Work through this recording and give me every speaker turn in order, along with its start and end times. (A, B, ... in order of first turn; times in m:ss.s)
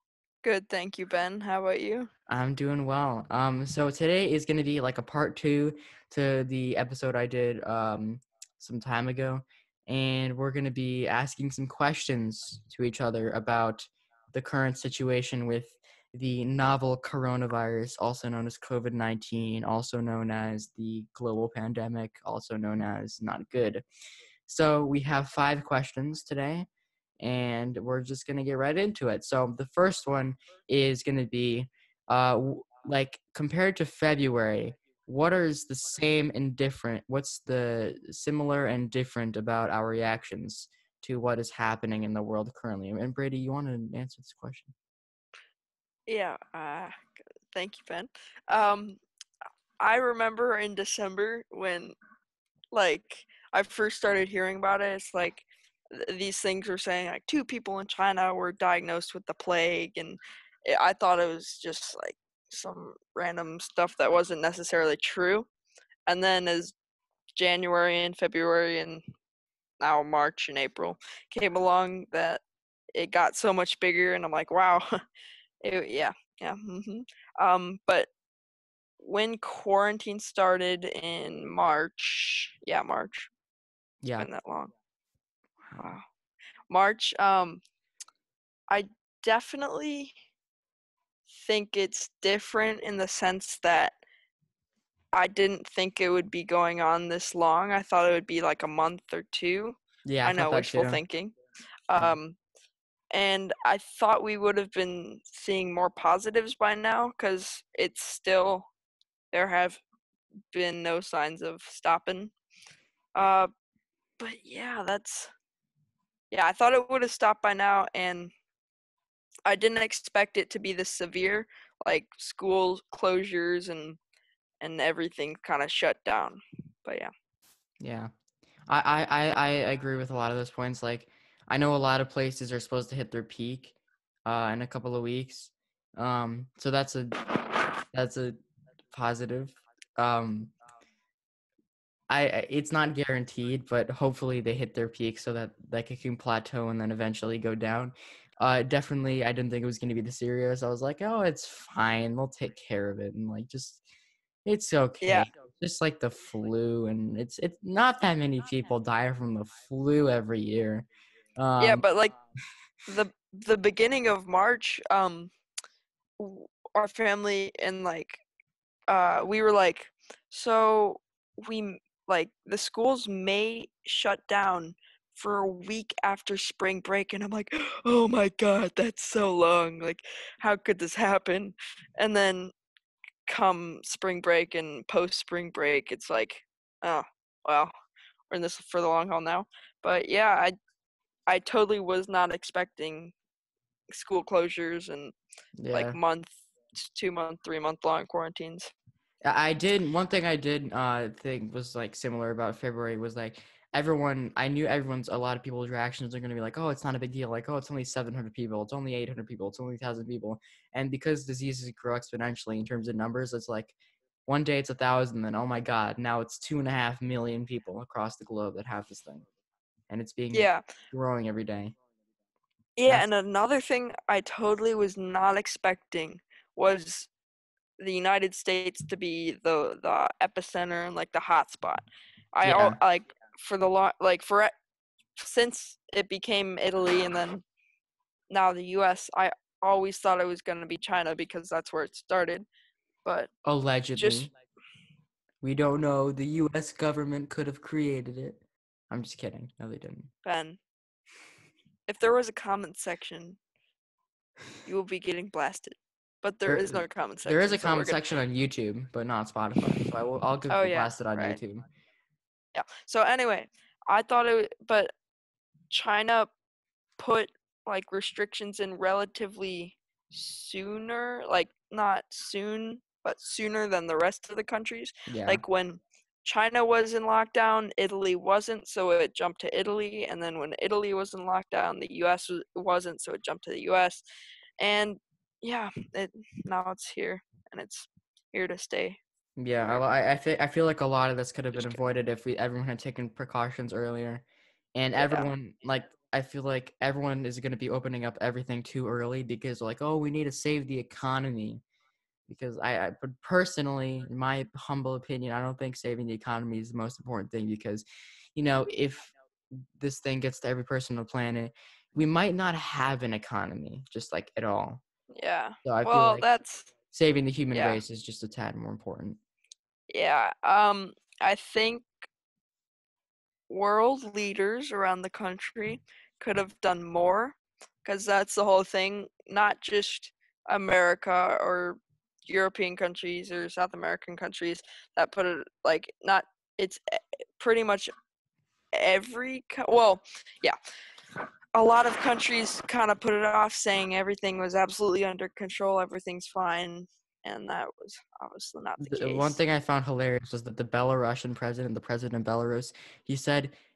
0:00.4-0:02.1 A
0:02.3-0:23.8 B
0:24.5-0:26.7 B
0:27.2-0:44.7 B
0:46.1-0:46.9 A
0:47.5-0:49.0 A
0:49.8-0:52.0 A
0:52.7-1:05.5 A
1:06.0-1:06.7 A
1:07.3-1:09.0 A
1:09.8-1:12.4 A
1:12.9-1:14.9 A
1:15.6-1:18.1 A
1:19.0-1:23.3 A
1:24.0-1:24.3 B
1:24.2-1:24.7 A
1:25.8-1:26.0 A
1:26.7-1:27.6 A
1:28.7-1:30.1 A
1:31.3-1:34.0 A
1:35.1-1:41.3 A
1:40.0-1:41.0 B
1:41.9-1:42.4 A
1:43.1-1:48.7 A
1:49.3-1:49.8 A
1:50.5-1:52.3 A
1:53.1-1:53.5 A
1:54.2-1:55.3 A
1:56.3-1:58.3 A
1:59.4-2:04.0 A
2:04.6-2:07.1 A
2:07.8-2:08.1 B
2:08.7-2:13.7 B
2:14.2-2:17.4 B
2:17.9-2:18.4 B
2:18.9-2:20.5 B
2:22.1-2:33.8 B
2:34.4-2:41.8 B
2:35.0-2:35.3 A
2:41.6-2:42.2 A
2:42.9-2:45.3 A
2:46.2-2:48.2 A
2:48.9-3:02.5 A
3:03.2-3:07.7 A
3:08.3-3:10.6 A
3:11.3-3:13.1 A
3:13.9-3:15.1 A
3:15.6-3:16.0 B
3:15.7-3:18.7 A
3:19.2-3:33.7 B
3:34.3-3:39.2 B
3:39.9-3:41.7 B
3:40.3-3:40.6 A
3:42.8-3:47.1 A
3:47.8-3:54.5 A
3:52.4-3:52.8 B
3:55.2-3:57.4 A
3:58.3-4:02.4 A
4:03.0-4:03.3 A
4:03.4-4:04.3 B
4:04.0-4:04.3 A
4:05.4-4:08.4 B
4:08.9-4:10.1 B
4:10.2-4:10.6 A
4:11.9-4:13.4 A
4:14.6-4:18.0 A
4:16.4-4:21.6 B
4:20.5-4:21.4 A
4:22.5-4:24.9 A
4:25.7-4:26.3 A
4:27.0-4:44.0 A
4:35.1-4:35.4 B
4:44.6-4:49.0 A
4:49.4-5:01.6 B
4:51.5-4:51.8 A
4:55.0-4:55.3 A
5:02.3-5:14.8 B
5:15.1-5:16.7 A
5:15.6-5:16.2 B
5:16.9-5:19.2 B
5:17.5-5:17.8 A
5:19.9-5:21.9 A
5:23.5-5:37.9 A
5:38.7-5:40.6 A
5:41.5-5:49.4 A
5:48.8-5:53.5 B